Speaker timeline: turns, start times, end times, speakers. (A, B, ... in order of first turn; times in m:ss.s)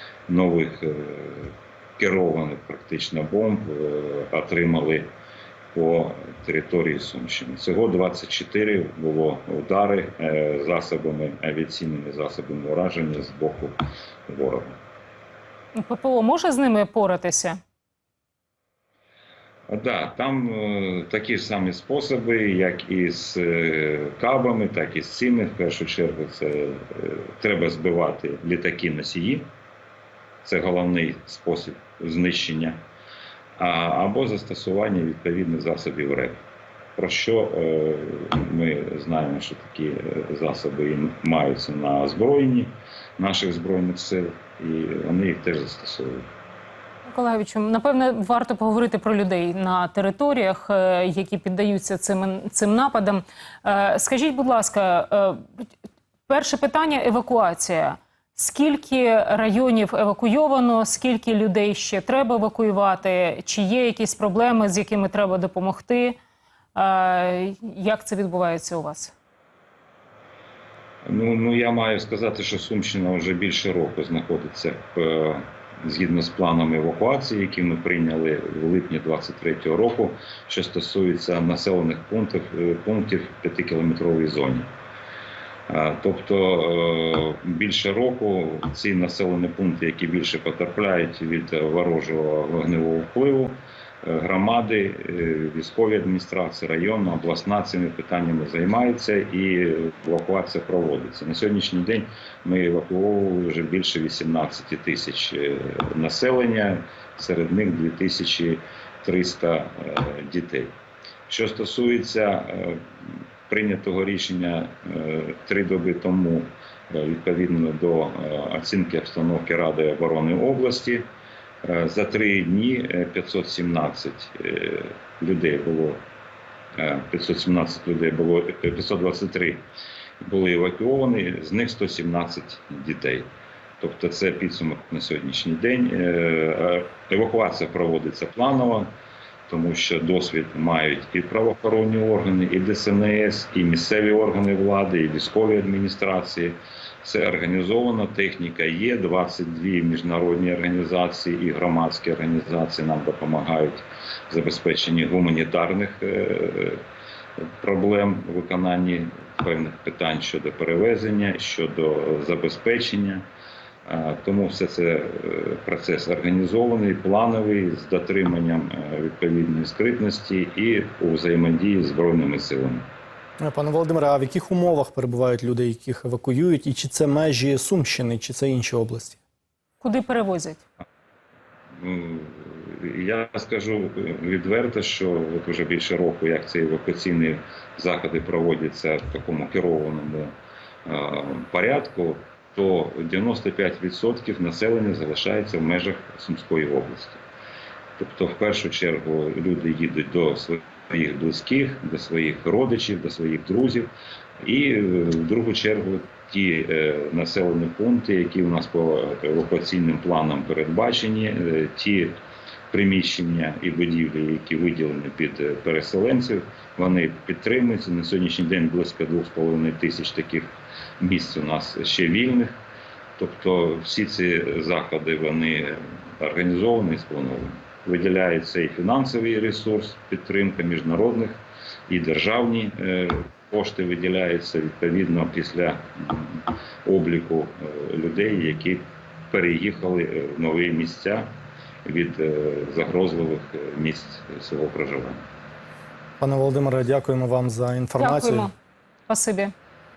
0:00.3-0:05.1 A
0:05.7-0:14.7 A
0:15.7-0:17.6 B
0:19.7-0:29.5 A
0:30.4-0:32.8 A
0:33.6-0:36.4 A
0:37.0-0:46.2 A
0:47.1-0:55.4 B
0:56.3-1:06.2 B
1:06.8-1:09.1 B
1:11.0-1:24.7 A
1:25.7-1:50.7 A
1:51.3-2:01.1 A
2:01.6-2:06.0 A
2:06.8-2:09.7 A
2:10.2-2:18.9 A
2:19.5-2:36.8 A
2:37.6-2:43.3 A
2:43.8-2:52.9 A
2:53.4-2:59.2 C
2:59.8-3:00.6 B
3:01.8-3:10.3 A
3:10.8-3:17.2 A
3:18.0-3:32.2 A
3:32.7-3:42.6 A
3:43.2-4:01.2 A
4:01.8-4:05.2 A
4:06.2-4:08.5 C
4:08.0-4:08.5 B
4:09.1-4:09.5 B